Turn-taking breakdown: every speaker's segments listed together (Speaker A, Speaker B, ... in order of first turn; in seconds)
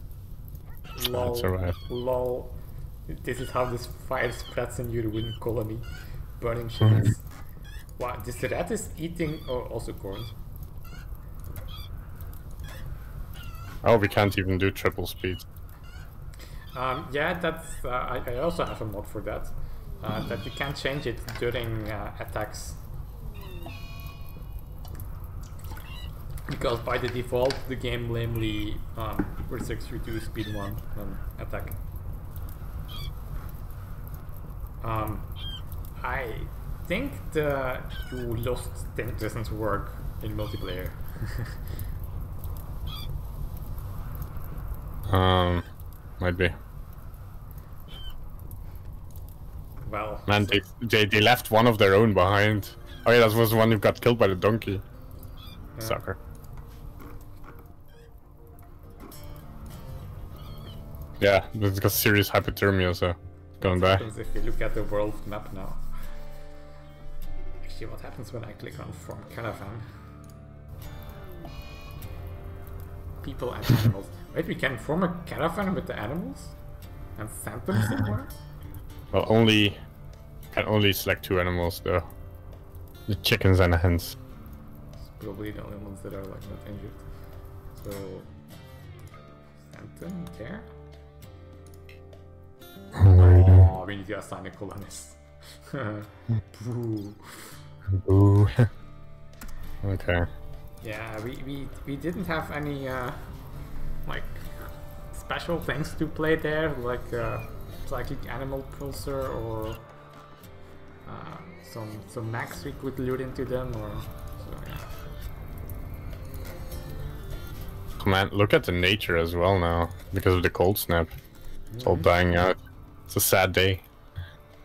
Speaker A: 0.9-5.9, 6.4-7.2, 8.0-10.3, 16.7-22.8, 26.5-31.8, 34.8-35.3, 36.0-41.6, 49.9-50.6, 55.8-56.0, 63.6-65.9, 67.6-69.9, 73.2-76.6, 77.2-78.3, 85.1-87.0, 87.8-88.3, 89.7-90.7, 93.1-97.6, 100.8-103.3, 104.0-109.8, 111.0-114.9, 121.7-122.1
Speaker B: 1.1-1.8, 6.8-7.1, 13.8-15.4, 45.1-45.6, 46.2-46.5, 50.3-54.8, 55.8-56.2, 61.2-64.0, 79.1-79.8, 80.5-82.1, 83.1-84.2, 92.9-93.7, 97.9-98.7, 99.8-100.3, 118.0-121.1, 121.8-122.6, 123.1-123.8